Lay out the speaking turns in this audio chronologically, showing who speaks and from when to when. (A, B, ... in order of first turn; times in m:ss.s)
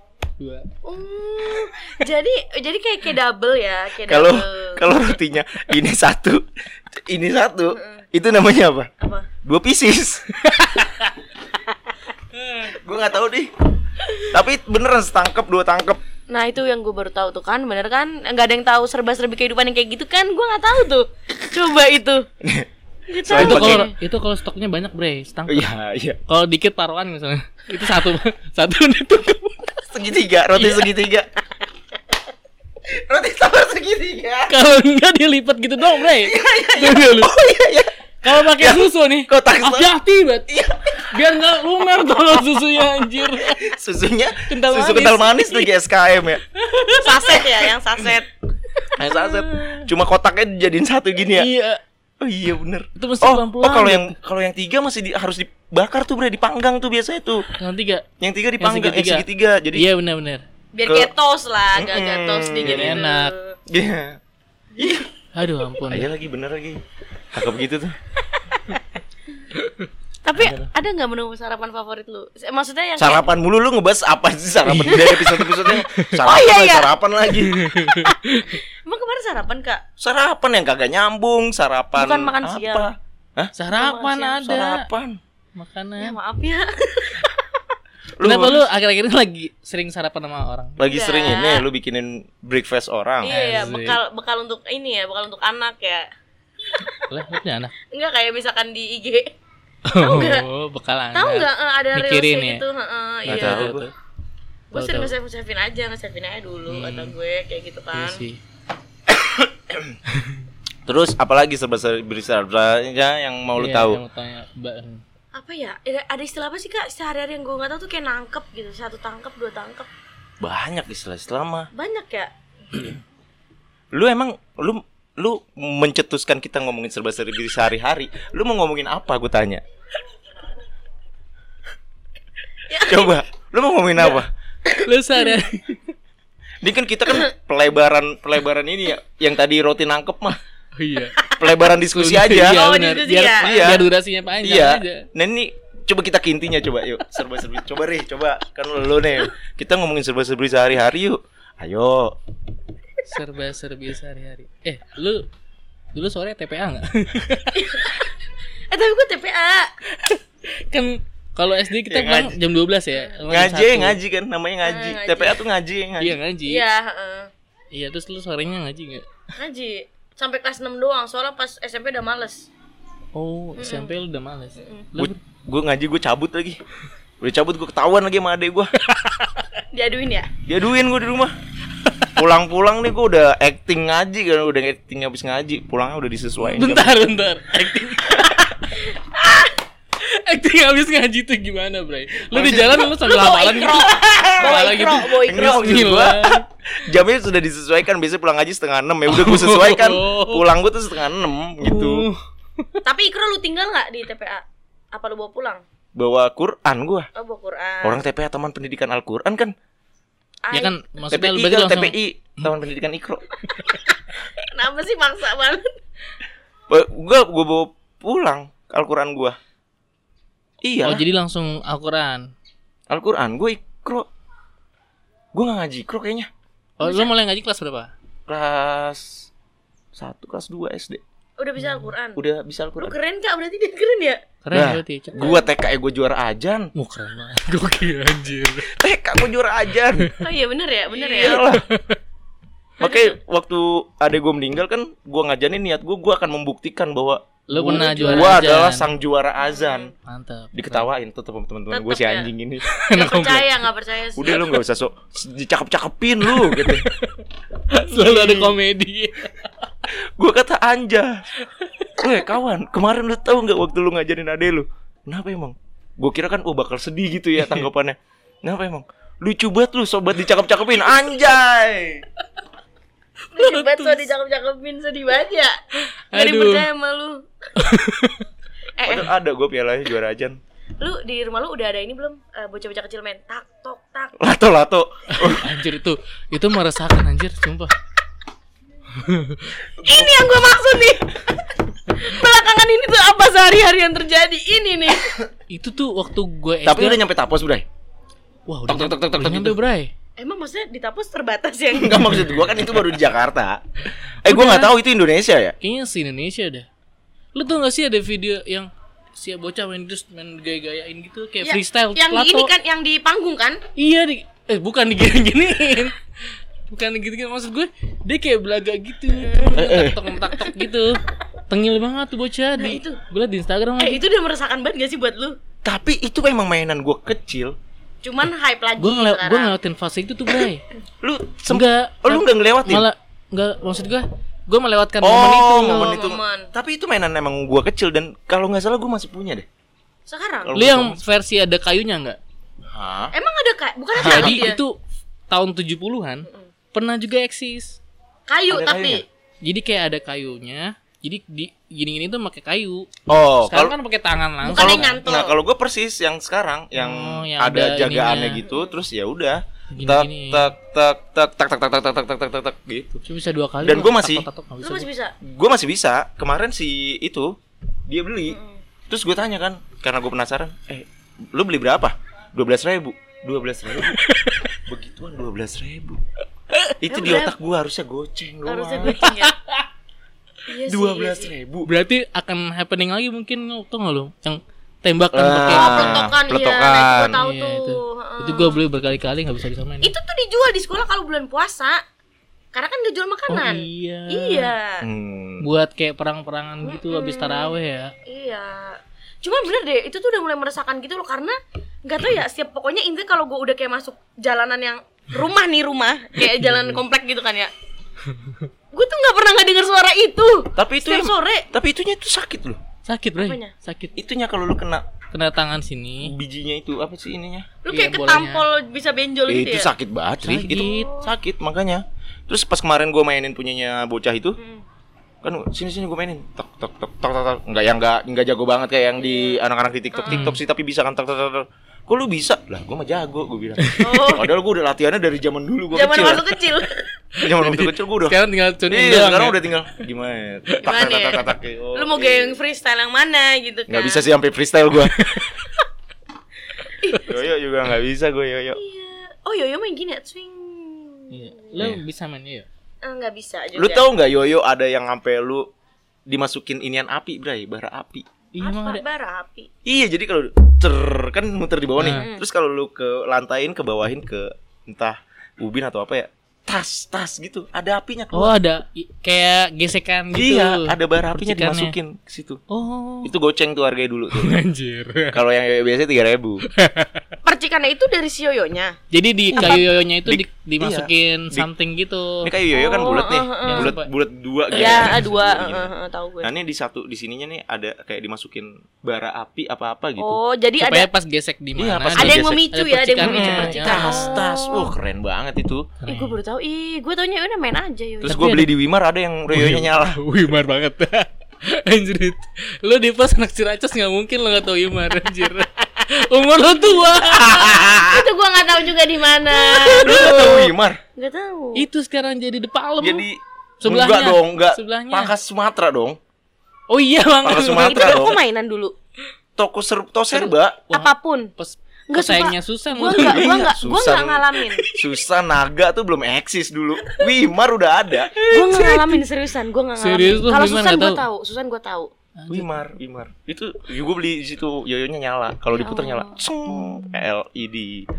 0:00.4-0:00.6 A
0:00.8-0:04.9 B
0:04.1-0:08.9 C
0:07.7-0:08.0 B
0:09.0-0:09.3 B
0:09.4-0:10.4 C
0:10.4-0:11.1 A
0:12.6-0:13.7 C
0:14.3-0:16.0 C
0:16.3-0:22.3 B
0:22.4-0:22.7 C
0:23.1-0:23.9 B
0:23.2-0:23.9 C
0:23.3-0:25.7 A
0:25.5-0:26.2 C
0:26.3-0:29.7 A
0:29.8-0:31.3 C
0:30.6-0:30.8 A
0:32.9-0:34.5 C
0:34.5-0:37.3 A
0:36.1-0:39.9 C
0:38.2-0:43.7 A
0:40.5-0:40.8 C
0:43.4-0:46.4 C
0:44.5-0:45.7 A
0:46.7-0:47.3 A
0:46.9-0:48.3 B
0:49.0-0:51.5 C
0:49.0-0:49.9 B
0:51.3-0:51.8 A
0:52.2-0:57.4 C
0:53.0-0:54.2 A
0:57.6-0:58.0 A
0:58.2-0:59.9 C
0:58.6-1:00.4 A
1:00.7-1:03.6 B
1:00.8-1:01.1 C
1:01.7-1:03.0 C
1:02.6-1:03.3 A
1:03.7-1:04.2 C
1:04.8-1:05.1 C
1:05.3-1:06.1 A
1:05.9-1:06.8 C
1:07.3-1:08.0 C
1:10.2-1:13.2 B
1:10.4-1:10.7 C
1:13.0-1:17.8 C
1:14.6-1:16.1 A
1:16.2-1:17.0 B
1:17.4-1:18.6 A
1:17.8-1:19.8 B
1:20.0-1:23.5 C
1:22.0-1:22.9 B
1:23.5-1:24.8 A
1:23.7-1:24.4 B
1:24.4-1:25.2 C
1:25.6-1:26.2 A
1:26.0-1:27.4 B
1:28.2-1:28.6 C
1:28.2-1:30.8 A
1:30.8-1:33.3 C
1:30.9-1:31.6 B
1:33.2-1:36.1 B
1:33.3-1:34.0 A
1:36.7-1:37.0 B
1:37.1-1:37.7 A
1:37.9-1:39.3 B
1:39.9-1:42.6 A
1:40.0-1:40.5 B
1:41.1-1:43.8 B
1:43.2-1:43.9 C
1:43.2-1:43.9 A
1:44.7-1:48.2 B
1:44.7-1:45.1 A
1:46.7-1:47.2 A
1:47.9-1:48.4 A
1:49.3-1:49.8 C
1:50.8-1:54.0 C
1:53.6-1:55.0 A
1:55.3-1:59.9 B
2:00.4-2:01.7 C
2:01.7-2:02.3 B
2:03.9-2:09.6 C
2:12.7-2:13.1 B
2:12.8-2:14.3 C
2:14.8-2:15.9 A
2:16.6-2:20.4 C
2:20.8-2:21.2 A
2:21.1-2:21.6 B
2:21.4-2:22.6 C
2:21.9-2:25.1 A
2:22.4-2:23.8 B
2:23.4-2:23.8 C
2:24.4-2:32.2 C
2:33.0-2:35.3 A
2:35.9-2:37.9 A
2:37.5-2:38.1 B
2:38.7-2:39.7 B
2:39.9-2:44.0 A
2:41.8-2:42.4 C
2:43.3-2:46.2 C
2:44.6-2:45.4 B
2:46.0-2:46.6 A
2:46.4-2:47.3 B
2:47.7-2:49.0 A
2:49.4-2:52.5 B
2:53.1-2:55.2 A
2:53.6-2:53.9 B
2:54.6-2:54.9 B
2:55.0-2:56.6 C
2:57.2-2:58.7 C
2:58.8-2:59.4 A
2:59.7-3:00.3 B
3:00.4-3:01.3 C
3:02.1-3:07.0 C
3:06.4-3:08.8 A
3:09.1-3:09.5 B
3:10.0-3:16.4 A
3:12.3-3:12.9 C
3:12.8-3:15.6 B
3:14.0-3:14.7 C
3:15.2-3:22.1 C
3:19.1-3:20.5 A
3:21.6-3:22.8 A
3:22.8-3:25.6 B
3:25.9-3:27.1 C
3:27.2-3:28.0 B
3:27.8-3:29.5 C
3:30.4-3:30.8 B
3:30.5-3:32.4 A
3:31.1-3:33.2 C
3:33.5-3:33.8 A
3:34.1-3:35.7 B
3:36.7-3:39.4 C
3:40.6-3:41.0 C
3:40.8-3:42.3 A
3:42.9-3:44.1 C
3:45.3-3:46.3 C
3:46.8-3:47.9 A
3:46.8-3:47.1 B
3:48.3-3:49.3 C
3:49.9-3:51.0 C
3:51.4-3:52.2 B
3:51.6-3:51.9 A
3:52.1-3:52.9 C
3:52.8-3:54.2 B
3:54.4-3:55.5 A
3:54.5-3:56.7 C
3:56.7-3:58.7 A
3:58.7-4:00.1 C
4:00.2-4:01.4 B
4:00.9-4:01.6 C
4:01.4-4:02.0 A
4:02.8-4:09.9 C
4:02.8-4:03.1 B
4:07.5-4:08.9 A
4:07.6-4:08.4 B
4:09.4-4:09.9 B
4:10.0-4:10.9 A
4:10.5-4:12.7 C
4:11.7-4:12.3 B
4:12.7-4:13.5 A
4:12.9-4:14.5 B
4:14.2-4:16.8 C
4:16.3-4:17.1 A
4:17.7-4:19.7 A
4:17.8-4:18.6 C
4:20.2-4:21.1 C
4:21.9-4:32.0 C
4:33.3-4:34.1 A
4:33.3-4:35.6 B
4:36.1-4:36.7 A
4:36.1-4:37.2 B
4:37.6-4:38.2 A
4:38.8-4:39.1 B
4:38.8-4:40.4 C
4:40.8-4:44.1 B
4:44.2-4:45.5 C
4:45.1-4:47.7 A
4:49.0-4:49.5 A
4:49.8-4:55.1 B
4:55.5-4:57.0 A
4:56.6-4:57.6 C
4:58.4-4:59.9 A
4:58.7-4:59.6 C
5:00.2-5:02.0 B
5:01.7-5:03.6 C
5:02.0-5:02.5 A
5:04.2-5:05.6 C
5:04.3-5:04.7 A
5:05.6-5:06.7 A
5:07.3-5:12.5 A
5:11.4-5:13.6 B
5:13.8-5:15.9 A
5:16.7-5:24.0 A
5:19.2-5:20.6 B
5:19.6-5:20.0 C
5:22.5-5:23.0 B
5:23.8-5:25.4 B
5:25.6-5:27.5 C
5:28.0-5:29.6 B
5:28.8-5:30.6 A
5:31.0-5:32.9 C
5:31.5-5:35.9 A
5:35.0-5:39.4 C
5:35.6-5:36.5 B
5:40.1-5:40.6 B
5:40.4-5:41.0 C
5:40.5-5:42.2 A
5:42.7-5:43.1 C
5:43.1-5:44.6 B
5:44.0-5:44.4 C
5:44.0-5:44.8 A
5:45.3-5:47.8 A
5:48.3-5:49.0 B
5:48.5-5:49.0 C
5:49.4-5:52.9 A
5:53.1-5:53.8 C
5:53.4-5:55.1 A
5:54.4-5:55.3 B
5:54.5-6:03.0 C
5:56.7-5:58.4 A
5:58.4-5:58.8 B
5:59.7-6:00.5 A
6:03.0-6:04.9 A
6:03.6-6:04.3 C
6:04.6-6:05.1 B
6:05.2-6:07.3 C
6:07.9-6:08.4 C
6:08.3-6:08.6 B
6:08.9-6:14.0 C
6:13.9-6:14.5 A
6:14.6-6:16.0 C
6:16.8-6:19.0 C
6:16.9-6:17.3 B
6:18.4-6:19.3 B
6:18.9-6:19.6 A
6:20.5-6:21.3 B
6:20.7-6:21.7 C
6:21.6-6:26.1 A
6:25.1-6:27.2 C
6:25.5-6:28.6 B
6:27.1-6:29.9 A
6:29.8-6:31.8 B
6:32.5-6:34.8 B
6:33.3-6:34.5 A
6:34.8-6:35.5 C
6:35.4-6:37.9 A
6:36.6-6:47.5 B
6:46.3-6:46.8 A
6:48.7-6:51.5 B
6:50.6-6:52.6 C
6:52.8-6:54.0 A
6:53.2-6:53.5 B
6:54.0-6:54.8 C
6:55.1-6:56.1 A
6:56.0-6:57.6 C
6:57.6-6:59.7 B
6:57.7-6:58.4 A
6:59.3-7:04.4 C
7:00.2-7:01.0 A
7:00.6-7:01.1 B
7:04.4-7:04.6 B
7:05.2-7:16.2 C
7:09.0-7:09.4 B
7:09.9-7:10.2 B
7:10.1-7:10.4 A
7:13.6-7:13.9 A
7:13.8-7:14.4 B
7:15.7-7:16.9 B
7:17.2-7:18.2 C
7:17.2-7:19.5 A
7:18.7-7:22.4 C
7:20.6-7:24.1 B
7:23.7-7:25.0 C
7:24.9-7:25.5 A
7:26.7-7:27.2 B
7:27.0-7:28.6 C
7:28.6-7:31.6 B
7:31.1-7:32.5 A
7:32.8-7:33.9 B
7:33.5-7:35.4 C
7:36.1-7:38.0 C
7:38.3-7:38.8 A
7:38.4-7:39.5 B
7:39.6-7:48.4 C
7:41.8-7:42.0 A
7:41.9-7:42.2 B
7:48.1-7:51.8 A
7:50.1-7:52.4 C
7:52.5-7:53.1 A
7:53.0-7:54.4 C
7:54.2-7:55.2 A
7:55.1-7:56.4 C
7:56.6-7:57.0 A
7:57.2-7:58.8 B
7:58.9-8:02.3 A
7:59.3-8:01.5 C
7:59.3-7:59.6 B
8:02.2-8:10.2 C
8:02.5-8:03.7 B
8:03.5-8:03.9 A
8:04.5-8:06.3 B
8:04.6-8:05.0 A
8:10.0-8:10.9 B
8:10.6-8:14.1 A
8:11.6-8:12.4 C
8:12.0-8:14.7 B
8:13.0-8:15.8 C
8:15.8-8:16.2 A
8:15.9-8:18.2 B
8:18.0-8:20.0 C
8:18.0-8:18.5 A
8:19.3-8:27.6 A
8:27.0-8:28.1 C
8:27.8-8:31.6 B
8:29.4-8:30.1 A
8:29.8-8:30.8 C
8:31.5-8:33.0 A
8:32.8-8:36.0 C
8:33.6-8:35.1 A
8:36.7-8:37.9 A
8:37.2-8:38.2 C
8:37.3-8:38.7 B
8:39.4-8:40.7 C
8:40.1-8:43.3 A
8:40.7-8:41.3 B
8:41.9-8:44.6 B
8:43.0-8:48.2 C
8:48.1-8:49.0 A
8:48.3-8:51.9 B
8:49.8-8:51.0 A
8:52.2-8:52.6 A
8:52.3-8:57.8 C
8:55.5-8:56.2 B
8:56.5-8:57.0 A